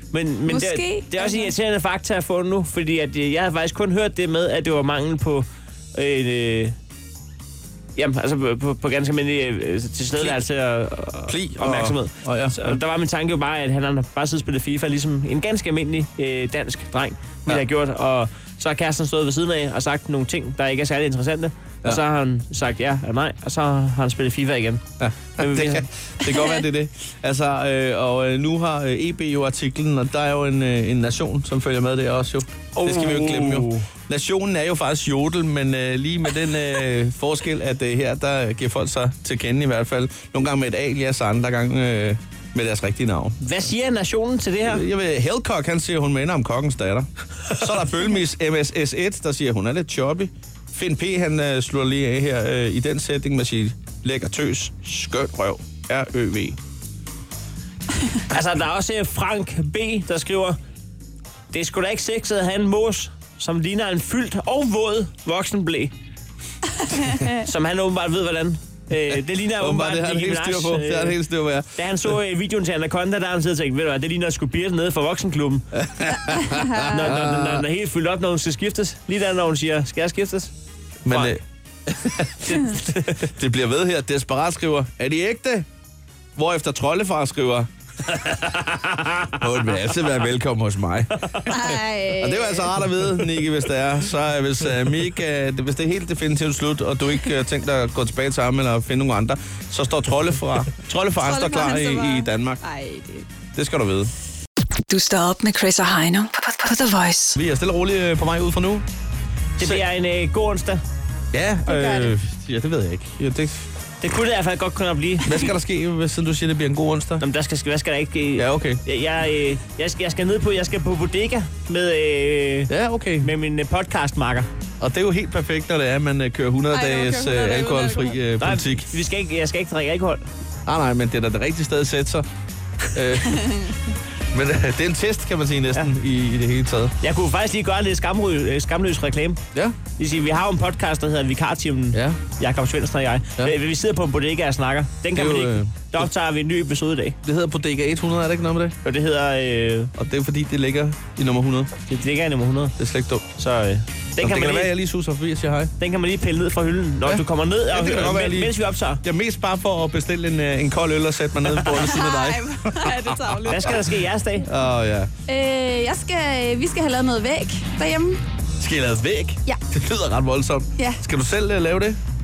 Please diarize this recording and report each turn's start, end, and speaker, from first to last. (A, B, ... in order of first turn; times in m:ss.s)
0:00.1-0:06.8 A
0:00.5-0:01.5 B
0:08.0-0:24.8 A
0:11.3-0:12.8 C
0:25.0-0:43.4 C
0:25.4-0:25.9 A
0:32.8-0:33.8 A
0:43.4-0:44.8 A
0:44.6-0:56.6 C
0:58.3-1:00.6 A
1:01.5-1:05.9 A
1:07.3-1:11.2 A
1:09.6-1:11.8 C
1:11.7-1:15.6 A
1:15.8-1:17.6 C
1:16.6-1:16.9 B
1:16.8-1:20.5 A
1:21.0-1:25.7 C
1:21.1-1:21.4 A
1:22.5-1:23.1 A
1:26.4-1:27.7 C
1:28.1-1:29.7 A
1:29.4-1:42.6 C
1:31.2-1:31.5 A
1:31.5-1:32.7 B
1:41.2-1:43.2 B
1:43.5-1:44.1 C
1:44.9-1:47.4 D
1:47.3-1:48.8 C
1:49.6-1:49.8 C
1:49.6-1:50.8 A
1:51.3-1:53.7 C
1:51.6-1:52.1 B
1:54.0-1:55.5 A
1:55.2-1:57.2 C
1:57.2-2:04.5 A
1:58.4-1:58.8 C
2:02.7-2:03.3 C
2:04.8-2:08.9 C
2:06.7-2:08.2 B
2:08.4-2:10.2 A
2:10.6-2:12.3 C
2:12.9-2:13.7 C
2:14.3-2:16.9 C
2:17.0-2:19.4 A
2:20.0-2:27.2 A
2:21.9-2:22.2 C
2:25.1-2:26.0 C
2:27.2-2:28.8 C
2:28.8-2:29.9 A
2:30.0-2:31.7 C
2:31.9-2:32.7 A
2:32.8-2:33.3 C
2:33.4-2:34.7 A
2:34.2-2:35.7 C
2:35.8-2:39.0 A
2:37.0-2:43.8 C
2:41.7-2:43.8 B
2:43.5-2:44.4 A
2:44.4-2:45.1 C
2:45.3-2:48.2 B
2:48.6-2:52.0 C